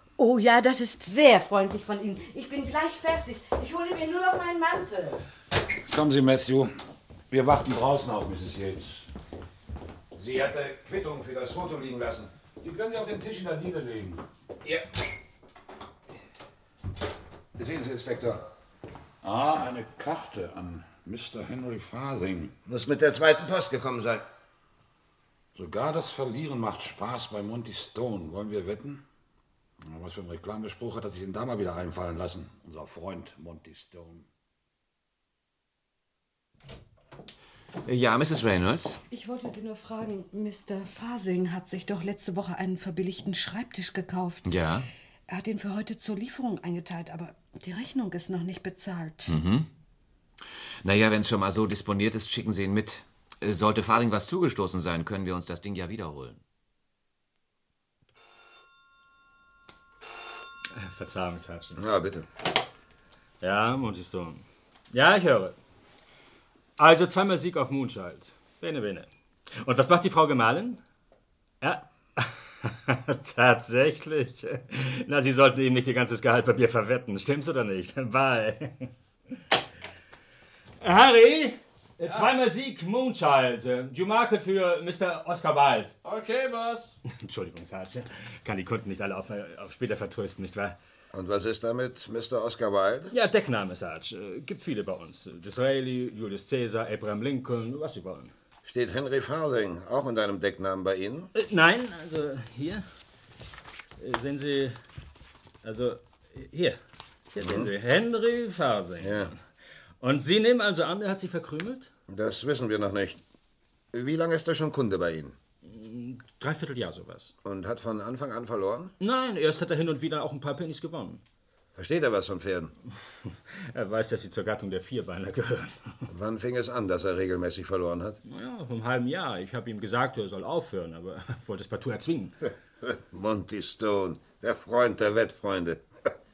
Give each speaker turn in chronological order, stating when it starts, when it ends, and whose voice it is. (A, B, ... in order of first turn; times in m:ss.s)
0:00.2-0:05.2 A
0:05.9-0:06.7 B
0:07.3-0:09.1 B
0:10.1-0:12.3 C
0:12.6-0:14.2 B
0:17.6-0:18.4 C
0:19.2-0:22.5 B
0:22.6-0:24.2 C
0:25.5-0:29.0 B
0:29.8-0:34.2 B
0:37.8-0:39.0 D
0:39.1-0:44.5 E
0:44.4-0:44.8 D
0:45.3-0:49.4 E
0:49.3-0:49.7 D
0:50.8-0:56.4 D
1:00.7-1:01.8 F
1:01.8-1:02.2 C
1:03.4-1:05.6 F
1:06.8-1:09.1 F
1:09.6-1:10.8 F
1:11.6-1:18.9 F
1:20.8-1:26.0 F
1:27.1-1:30.8 F
1:31.1-1:33.1 C
1:33.1-1:38.3 F
1:38.6-1:41.3 C
1:41.3-1:42.8 F
1:44.0-1:44.8 F
1:45.6-1:46.8 F
1:47.3-1:49.4 F
1:47.4-1:47.7 C
1:49.0-1:49.3 C
1:50.0-1:51.9 F
1:52.1-1:53.2 C
1:53.9-1:55.4 C
1:55.6-1:57.3 F
1:57.4-1:58.9 C
1:59.0-2:01.2 F
2:01.8-2:02.7 C
2:03.7-2:06.0 F
2:06.1-2:08.2 C
2:08.2-2:12.4 F
2:12.9-2:15.8 C